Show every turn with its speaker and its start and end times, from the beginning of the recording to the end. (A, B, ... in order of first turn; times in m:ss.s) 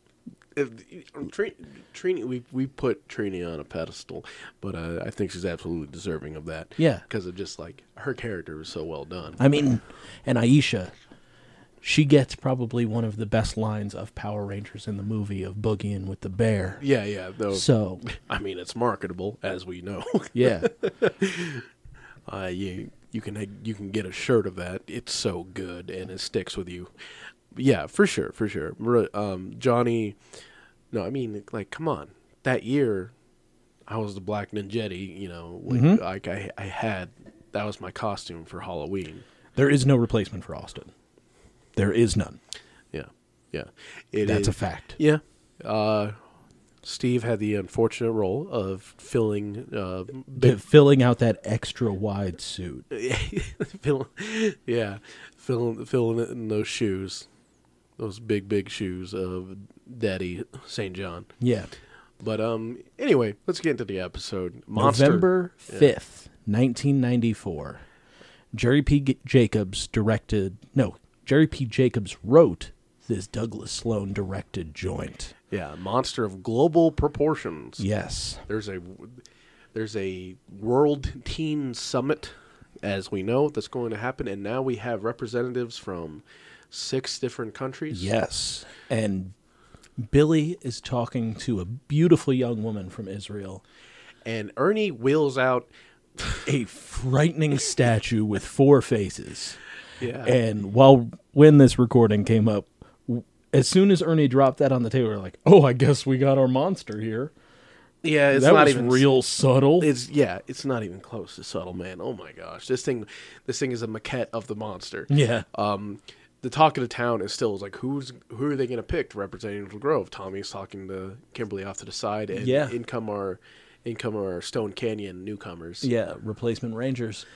0:00.6-0:09.4 A
0:06.8-0:07.0 B
0:09.4-0:10.9 B
0:11.8-0:16.8 B
0:16.8-0:21.6 A
0:17.5-0:18.0 B
0:20.3-0:20.7 B
0:22.3-0:26.9 A
0:27.5-0:30.2 A
0:30.9-0:33.1 A
0:33.9-0:39.2 A
0:35.7-0:36.0 B
0:39.5-0:40.9 B
0:41.8-0:42.4 B
0:42.9-0:46.2 A
0:44.2-0:45.0 B
0:46.8-0:50.6 A
0:50.4-0:52.9 B
0:52.9-0:57.3 A
0:58.0-1:01.3 A
1:01.4-1:01.7 B
1:02.2-1:05.9 A
1:04.7-1:07.8 B
1:08.5-1:15.3 B
1:15.5-1:17.8 A
1:17.8-1:18.4 B
1:18.5-1:28.1 A
1:27.9-1:29.3 B
1:30.0-1:33.6 B
1:34.2-1:36.5 A
1:36.4-1:39.6 B
1:40.0-1:40.4 A
1:40.2-1:47.3 B
1:48.0-1:49.1 A
1:48.3-1:49.9 B
1:49.8-2:05.9 A
1:55.1-1:55.4 B
2:02.3-2:02.7 B
2:05.8-2:07.2 B